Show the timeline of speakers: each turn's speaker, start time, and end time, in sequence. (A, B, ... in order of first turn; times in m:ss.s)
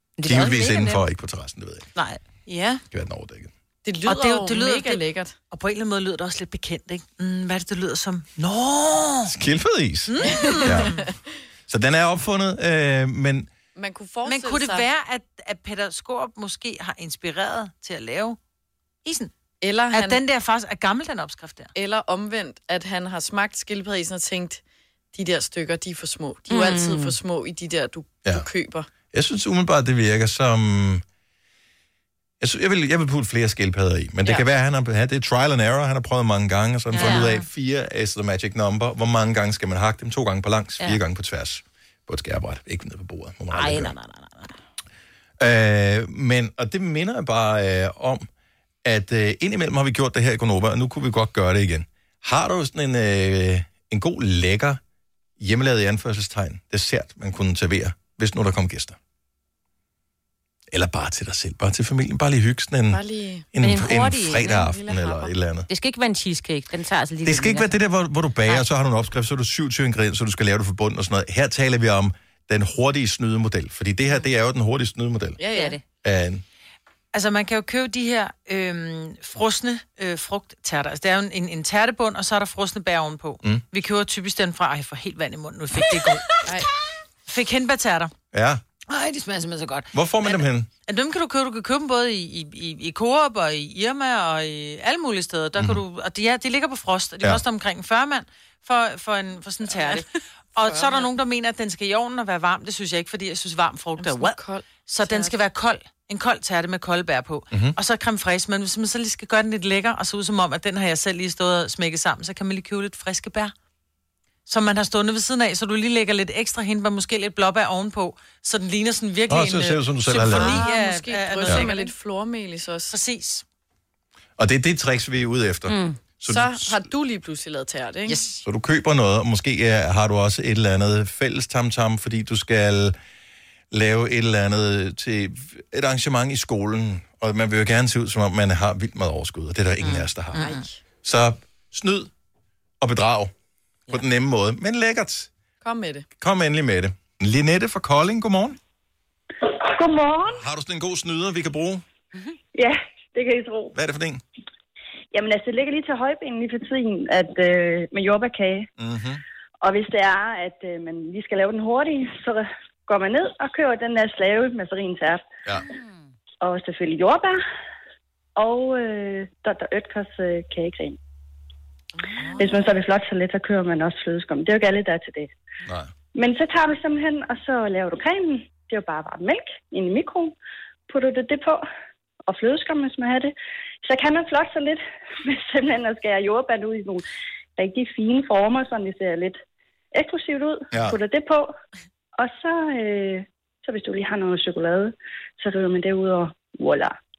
0:00.2-0:01.0 A
0:00.2-0:01.9 B
0:02.5-0:02.8 C
0:02.9-0:03.5 B
0:03.8-0:05.4 D
0:04.1-0:09.3 C
0:09.3-0:10.9 B
0:10.1-0:11.0 C
0:10.2-0:11.1 D
0:11.7-0:13.5 B
0:13.8-0:14.9 D
0:14.2-0:18.4 C
0:19.0-0:19.3 C
0:19.6-0:20.2 D
0:19.9-0:21.7 C
0:21.8-0:24.6 D
0:25.1-0:28.9 D
0:26.5-0:27.2 A
0:29.1-0:31.0 B
0:32.4-0:44.0 B
0:37.0-0:37.4 A
0:37.0-0:37.4 C
0:43.5-0:44.6 A
0:45.4-0:48.3 B
0:48.8-0:54.8 B
0:55.4-0:59.0 B
1:00.7-1:05.7 B
1:02.9-1:03.5 D
1:03.6-1:05.1 A
1:05.7-1:07.7 A
1:07.2-1:15.4 B
1:15.4-1:15.8 D
1:15.5-1:15.8 A
1:16.0-1:16.4 B
1:17.1-1:26.4 C
1:27.3-1:28.1 C
1:28.3-1:28.6 B
1:28.9-1:53.5 C
1:29.9-1:30.7 B
1:40.6-1:41.1 D
1:44.0-1:45.4 D
1:47.5-1:47.8 B
1:54.5-2:01.9 C
1:59.3-2:00.6 B
2:00.3-2:02.9 D
2:00.4-2:00.7 A
2:02.9-2:03.4 C
2:04.4-2:06.9 B
2:05.7-2:06.0 A
2:06.3-2:08.3 D
2:08.4-2:13.0 B
2:13.7-2:20.4 B
2:19.8-2:20.6 C
2:20.4-2:20.8 D
2:21.0-2:22.1 B
2:22.8-2:23.3 B
2:23.9-2:25.3 B
2:25.6-2:26.1 D
2:26.2-2:28.6 B
2:29.6-2:30.4 E
2:30.3-2:31.8 B
2:32.6-2:33.7 E
2:33.8-2:34.2 B
2:35.1-2:38.7 E
2:38.8-2:39.2 B
2:39.6-2:45.3 E
2:45.7-2:46.1 A
2:46.4-2:47.4 E
2:48.4-2:51.0 E
2:52.0-2:52.6 D
2:52.4-2:55.3 E
2:55.6-2:55.9 B
2:56.2-3:00.4 E
3:00.9-3:01.7 E
3:02.3-3:07.0 E
3:07.6-3:09.4 E
3:09.9-3:11.5 E
3:12.2-3:17.0 E